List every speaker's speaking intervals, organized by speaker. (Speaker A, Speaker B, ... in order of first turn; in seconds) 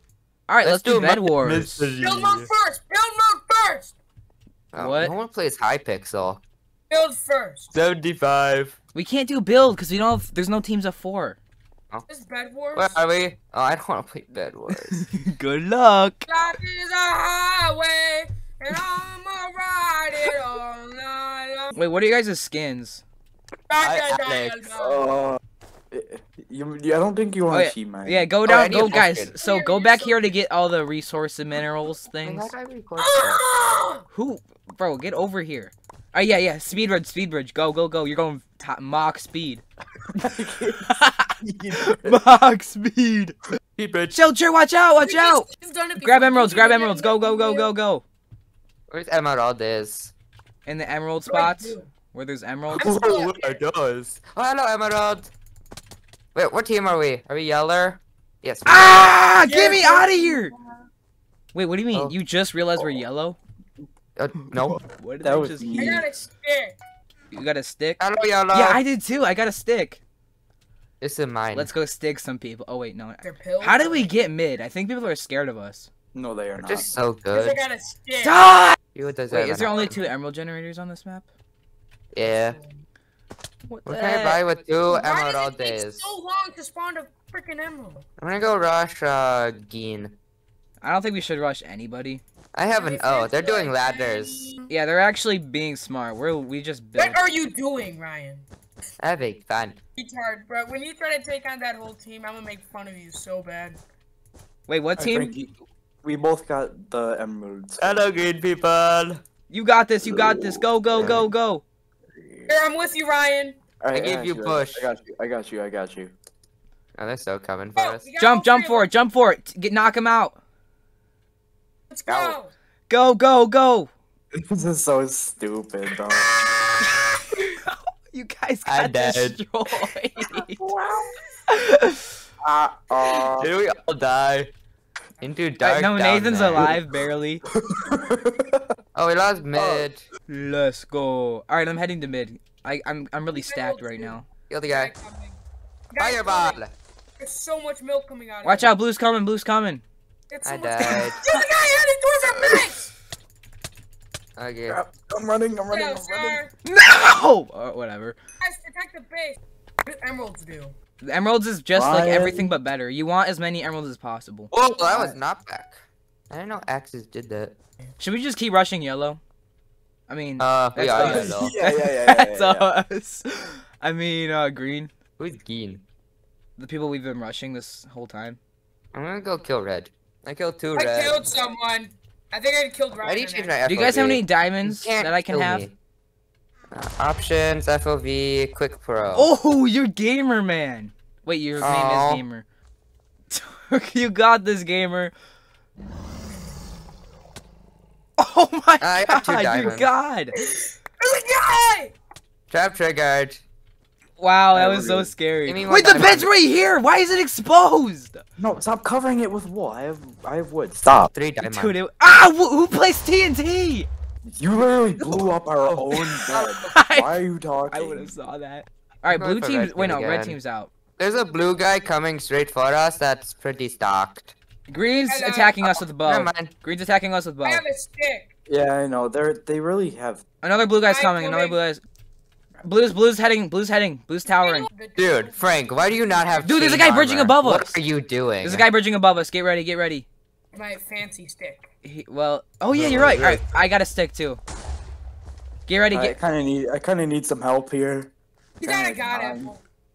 Speaker A: 0.5-1.9, 4.8-5.1, 8.9-11.4, 14.9-16.3, 21.8-23.0, 27.5-32.5, 34.1-39.6, 40.9-43.4, 44.1-45.5, 46.0-48.0, 50.7-52.9, 58.7-60.5, 61.5-63.4, 64.7-66.0, 67.3-68.0, 68.5-70.0, 71.5-75.9, 78.2-78.8, 79.3-81.3, 83.7-84.4, 90.8-92.2, 94.7-97.2, 104.7-105.3, 109.5-111.6, 118.2-120.4, 122.9-123.9, 127.5-130.6, 131.5-132.2, 135.6-137.4, 140.3-144.3, 148.4-149.8, 156.7-158.2, 161.0-164.5, 168.0-169.2, 170.1-174.9, 176.6-178.4, 183.7-185.7, 189.2-192.4, 193.3-195.1, 198.2-200.4, 204.2-208.2, 211.4-213.9, 216.6-217.1, 217.7-220.7, 224.7-227.6, 230.4-231.8, 232.6-234.7, 236.4-237.8, 238.4-240.1, 241.8-244.4, 245.7-246.2
Speaker B: 0.6-2.5, 4.7-6.4, 7.7-8.8, 12.8-15.0, 23.8-24.6, 28.5-29.3, 32.2-33.4, 43.8-44.2, 48.9-50.1, 52.8-55.3, 56.4-59.1, 64.2-64.8, 68.0-68.8, 71.0-71.7, 76.6-77.6, 78.9-80.0, 82.1-82.6, 83.8-86.1, 88.2-90.2, 92.5-94.5, 99.0-99.8, 107.8-109.2, 111.0-111.2, 113.9-114.8, 117.0-118.1, 128.7-129.4, 133.4-134.5, 135.2-136.8, 138.9-140.0, 144.5-144.9, 146.0-146.7, 150.4-151.2, 154.4-154.8, 164.5-165.8, 166.3-167.5, 170.4-171.5, 175.2-175.8, 178.9-181.3, 183.0-185.7, 186.7-189.3, 191.6-192.2, 198.8-199.9, 202.5-203.4, 205.5-206.3, 211.1-211.8, 215.7-216.6, 219.1-220.4, 221.0-224.3, 225.6-226.5, 235.0-238.7, 242.7-243.4
Speaker C: 2.0-4.0, 6.9-7.7, 12.1-13.0, 16.3-21.8, 23.7-25.1, 29.4-30.3, 33.0-34.0, 45.0-47.7, 51.3-51.9, 52.8-53.6, 59.4-60.5, 65.7-66.8, 73.2-74.1, 77.3-78.5, 82.2-82.8, 84.9-88.1, 92.7-94.7, 97.0-98.5, 100.0-103.8, 112.5-113.6, 117.8-118.9, 121.9-122.5, 143.3-145.4, 145.9-146.6, 147.2-148.7, 150.3-152.9, 155.7-156.5, 158.4-160.8, 180.8-183.6, 200.4-201.9, 225.1-225.6, 227.4-228.3, 230.9-231.6, 234.3-236.3, 240.5-241.7, 248.6-249.6
Speaker D: 24.7-25.4, 25.9-28.3, 40.2-42.2, 65.2-66.1, 76.1-76.9, 105.0-108.2, 110.0-111.3, 112.2-112.5, 113.8-116.1, 122.1-122.4, 124.3-126.4, 130.3-131.2, 132.4-133.5, 137.6-138.7, 139.5-139.9, 154.7-156.4, 161.7-162.5, 164.8-165.2, 170.8-172.7, 204.5-205.1, 208.4-211.1, 214.3-218.2, 228.5-230.2, 245.9-248.1, 248.6-249.5